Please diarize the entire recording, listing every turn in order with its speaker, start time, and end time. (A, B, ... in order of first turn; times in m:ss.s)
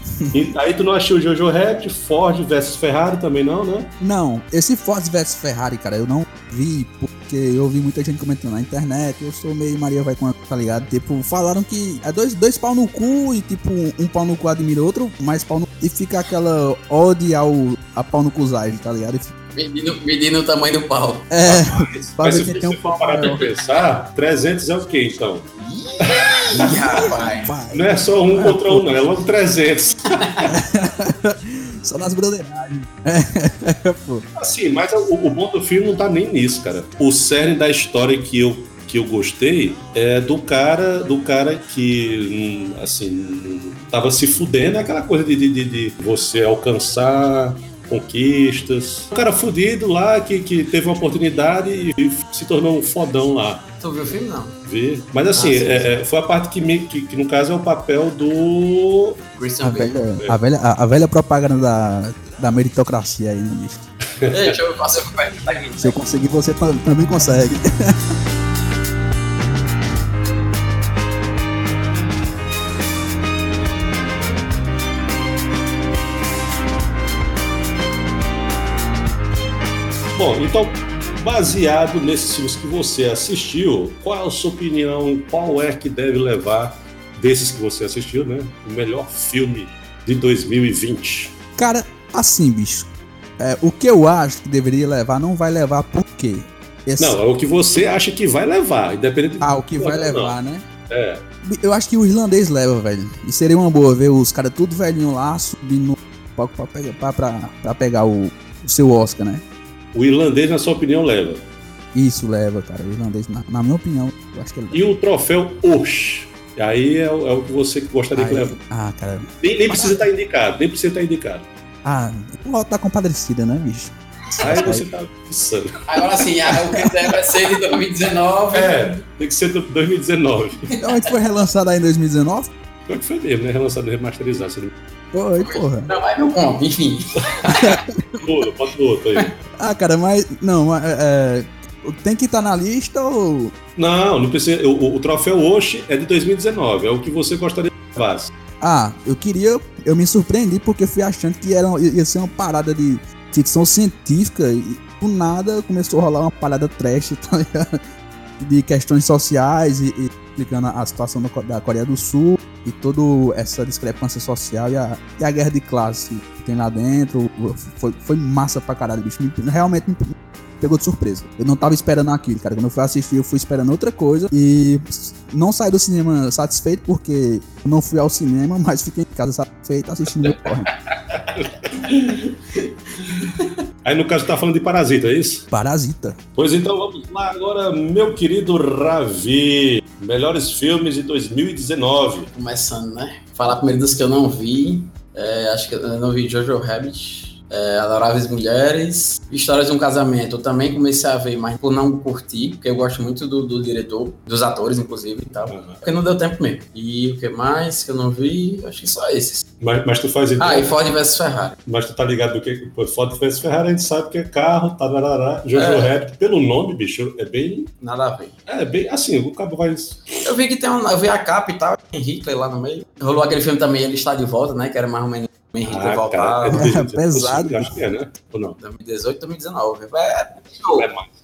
0:00.3-0:03.9 A
0:04.0-0:19.3 B
0:19.5-0:21.3 C
0:21.3-0:23.4 B
0:21.4-0:25.4 A
0:25.6-0:27.5 C
0:26.0-0:26.4 A
0:26.5-0:28.8 B
0:27.7-0:30.2 A
0:30.2-0:30.5 C
0:30.5-0:34.2 B
0:34.4-0:53.6 A
0:53.8-0:54.6 C
0:54.6-0:59.2 A
0:55.3-0:55.9 C
0:59.4-1:00.0 C
0:59.6-1:03.8 B
1:04.2-1:04.6 A
1:04.3-1:06.0 C
1:05.8-1:08.1 B
1:20.1-1:31.3 A
1:31.6-1:37.2 B
1:37.0-1:40.4 A
1:39.4-1:40.6 B
1:40.9-1:41.2 A
1:41.4-1:49.4 B
1:49.9-1:51.4 A
1:51.9-1:54.8 B
1:54.7-1:58.6 A
1:58.1-2:00.0 B
1:59.4-2:01.4 A
2:01.8-2:04.8 B
2:04.4-2:06.2 A
2:05.9-2:08.9 C
2:08.5-2:10.7 A
2:10.8-2:12.5 B
2:12.9-2:14.7 A
2:15.1-2:15.9 B
2:15.4-2:17.6 C
2:17.4-2:18.2 B
2:18.2-2:19.3 A
2:19.6-2:23.5 B
2:23.8-2:28.3 A
2:28.6-2:37.8 B
2:38.4-3:00.7 B
3:00.9-3:03.2 A
3:03.2-3:03.5 C
3:03.8-3:05.4 A
3:05.5-3:06.2 B
3:06.4-3:12.3 A
3:12.3-3:29.4 C
3:25.5-3:25.8 A
3:29.6-3:30.7 A
3:30.4-3:31.6 C
3:31.6-3:37.7 A
3:35.6-3:35.9 C
3:37.8-3:38.3 C
3:38.5-3:40.2 A
3:40.2-3:46.6 C
3:45.7-3:48.6 A
3:46.5-3:47.8 B
3:48.6-3:50.9 C
3:50.7-3:51.1 A